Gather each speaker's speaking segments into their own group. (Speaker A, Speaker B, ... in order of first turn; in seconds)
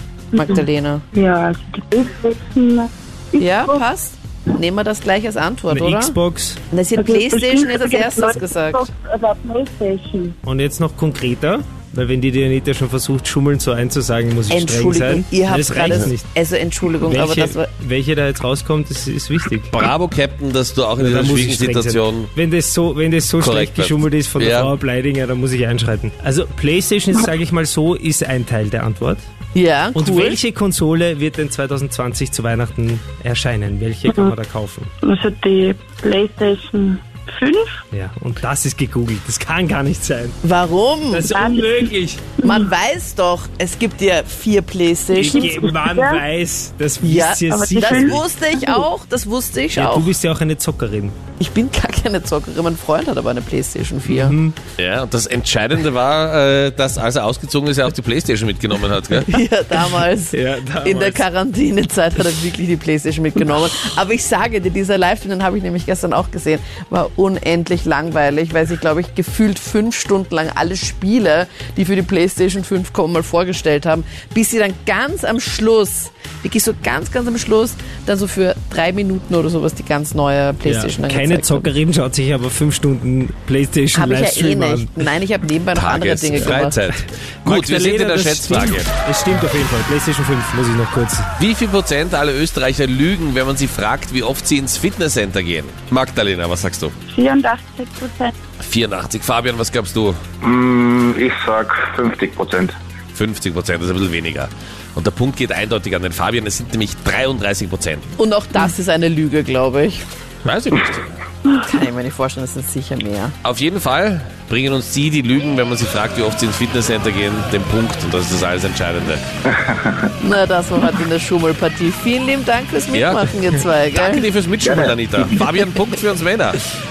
Speaker A: 0.3-1.0, 3.4-6.2, 6.7-8.8, 14.5-17.7, 29.5-30.4, 40.4-41.3, 42.4-45.7, 47.0-50.1, 51.4-54.4, 59.3-81.7, 83.9-86.8, 108.2-110.0, 111.5-113.3, 120.2-124.3
Speaker B: 0.3-3.8, 7.0-10.4, 35.0-37.8, 41.3-42.6, 45.3-46.2, 47.5-48.9, 97.1-98.3
Speaker C: 5.7-6.6, 10.4-16.3, 17.0-19.7, 21.0-29.2, 29.9-34.9, 37.9-40.4, 41.1-42.3, 45.1-48.3, 49.8-51.2, 54.1-54.6, 60.3-61.2, 80.7-85.1, 87.4-91.3
Speaker D: 19.7-22.3, 23.4-24.7, 54.8-59.3, 85.8-88.9, 91.4-96.9, 98.6-100.2, 103.1-108.1, 110.5-111.1, 113.4-119.2, 122.9-123.3, 123.9-126.6
Speaker E: 100.4-102.8, 119.5-120.1, 124.6-125.4